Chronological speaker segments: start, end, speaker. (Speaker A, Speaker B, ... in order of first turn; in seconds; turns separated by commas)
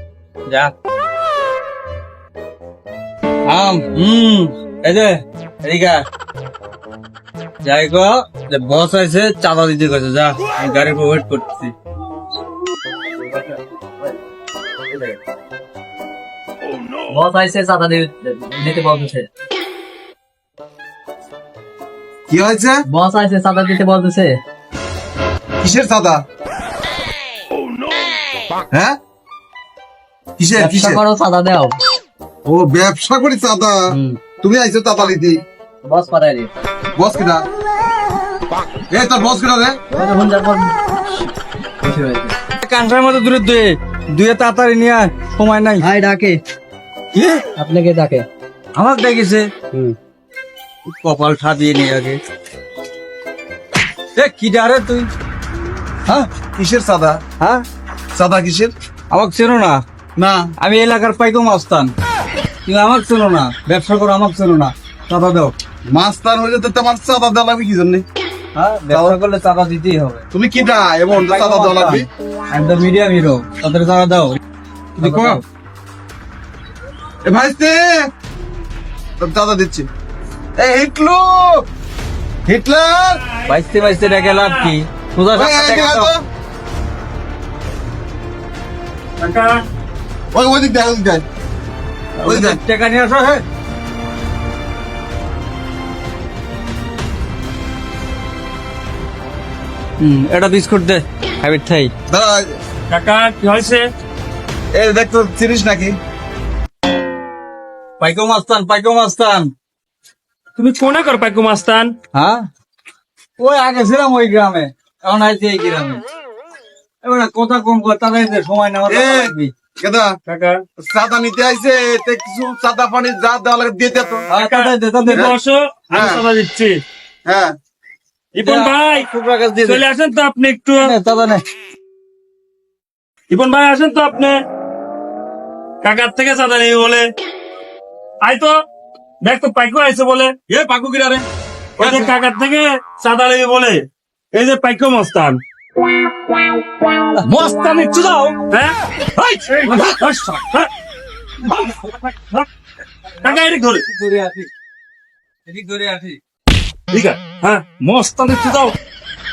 Speaker A: 0.5-0.7, Speaker A: 3.5-6.0, Speaker A: 7.6-11.7, Speaker B: 13.2-14.2, Speaker B: 14.9-15.2, Speaker B: 17.1-19.3, Speaker C: 22.3-22.8, Speaker B: 22.9-24.4, Speaker C: 25.6-26.2, Speaker C: 28.7-29.0, Speaker C: 30.4-31.0, Speaker B: 30.6-31.8, Speaker C: 32.4-35.4, Speaker B: 33.9-34.2, Speaker B: 35.8-36.5, Speaker C: 37.0-37.5, Speaker C: 38.9-39.8, Speaker B: 39.9-42.4, Speaker A: 42.6-45.9, Speaker B: 45.8-46.4, Speaker A: 47.1-47.4, Speaker B: 47.5-48.2, Speaker A: 48.8-49.5, Speaker A: 50.9-52.2, Speaker A: 54.1-55.1, Speaker C: 56.5-57.2, Speaker C: 58.1-58.7, Speaker A: 59.1-59.8, Speaker C: 60.1-60.5, Speaker A: 60.6-61.9, Speaker A: 62.6-65.5, Speaker C: 65.9-68.0, Speaker A: 68.5-70.2, Speaker C: 68.9-69.2, Speaker C: 70.3-72.1, Speaker A: 71.1-74.4, Speaker C: 75.0-75.4, Speaker A: 75.0-75.4, Speaker C: 77.2-78.1, Speaker C: 79.2-79.9, Speaker C: 80.5-81.7, Speaker C: 82.5-83.2, Speaker D: 83.2-84.7, Speaker A: 83.5-86.1, Speaker C: 85.3-86.2, Speaker D: 89.2-89.6, Speaker C: 90.3-91.2, Speaker A: 92.2-93.4, Speaker C: 92.2-92.6, Speaker A: 100.0-101.9, Speaker C: 102.1-102.5, Speaker D: 102.9-103.8, Speaker C: 104.7-106.0, Speaker A: 108.0-109.5, Speaker D: 110.5-111.9, Speaker A: 112.1-112.5, Speaker A: 113.4-116.0, Speaker A: 117.0-119.5, Speaker C: 118.9-120.2, Speaker D: 120.3-120.6, Speaker C: 120.8-124.3, Speaker A: 124.3-125.3, Speaker D: 124.3-126.8, Speaker C: 125.9-126.2, Speaker C: 127.2-127.5, Speaker D: 128.3-129.1, Speaker A: 128.4-129.8, Speaker D: 129.6-130.9, Speaker A: 130.8-131.4, Speaker D: 133.3-134.4, Speaker D: 135.8-137.1, Speaker D: 138.2-138.6, Speaker D: 139.2-140.4, Speaker A: 140.5-141.2, Speaker D: 141.8-145.4, Speaker A: 147.2-148.4, Speaker A: 149.2-150.2, Speaker D: 149.4-150.7, Speaker A: 151.4-151.9, Speaker D: 151.4-152.5, Speaker A: 153.2-154.5, Speaker D: 153.2-153.8, Speaker A: 155.4-156.2, Speaker D: 156.9-158.7, Speaker A: 157.8-158.3